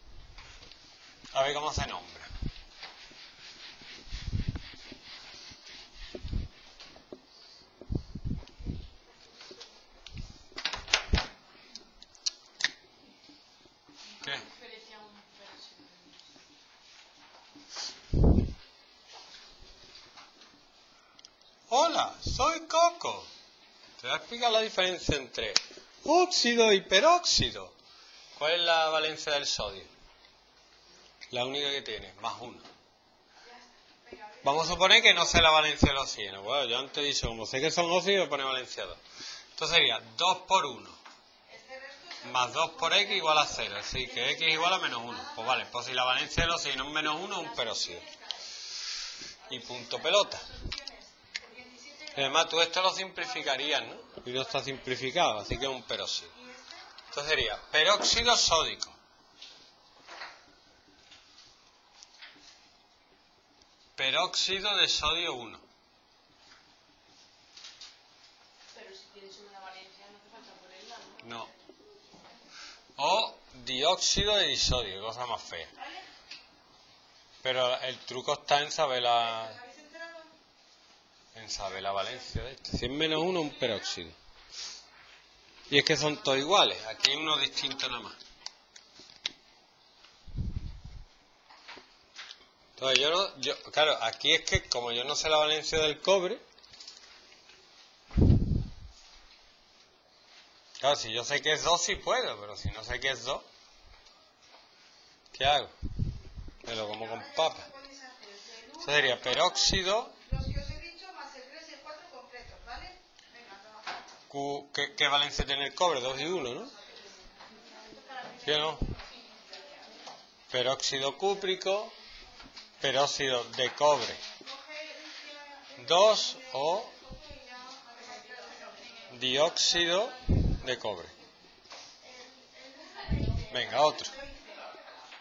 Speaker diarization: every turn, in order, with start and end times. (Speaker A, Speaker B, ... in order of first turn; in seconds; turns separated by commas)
Speaker A: 1.3-2.3, Speaker A: 14.2-14.5, Speaker B: 14.4-16.2, Speaker A: 21.7-23.3, Speaker A: 24.0-27.7, Speaker A: 28.3-29.9, Speaker A: 31.3-32.7, Speaker A: 34.4-39.0, Speaker A: 39.5-41.0, Speaker C: 41.7-42.0, Speaker A: 42.2-48.1, Speaker A: 49.5-50.5, Speaker C: 51.6-51.9, Speaker A: 52.1-56.3, Speaker A: 57.1-59.0, Speaker A: 64.0-65.6, Speaker B: 68.7-71.2, Speaker A: 71.2-71.5, Speaker A: 73.0-75.7, Speaker A: 77.4-79.6, Speaker C: 79.6-80.2, Speaker A: 81.3-84.2, Speaker A: 85.7-88.2, Speaker A: 92.8-96.4, Speaker A: 100.8-103.5, Speaker A: 105.3-105.7, Speaker A: 106.6-107.8, Speaker C: 107.8-108.7, Speaker A: 108.7-110.2, Speaker C: 110.3-113.9, Speaker A: 114.3-116.7, Speaker C: 118.0-118.3, Speaker A: 118.4-118.9, Speaker A: 120.5-121.9, Speaker A: 122.8-124.2, Speaker C: 124.7-125.5, Speaker A: 125.8-126.9, Speaker C: 127.5-128.7, Speaker A: 129.1-131.1, Speaker A: 133.4-134.2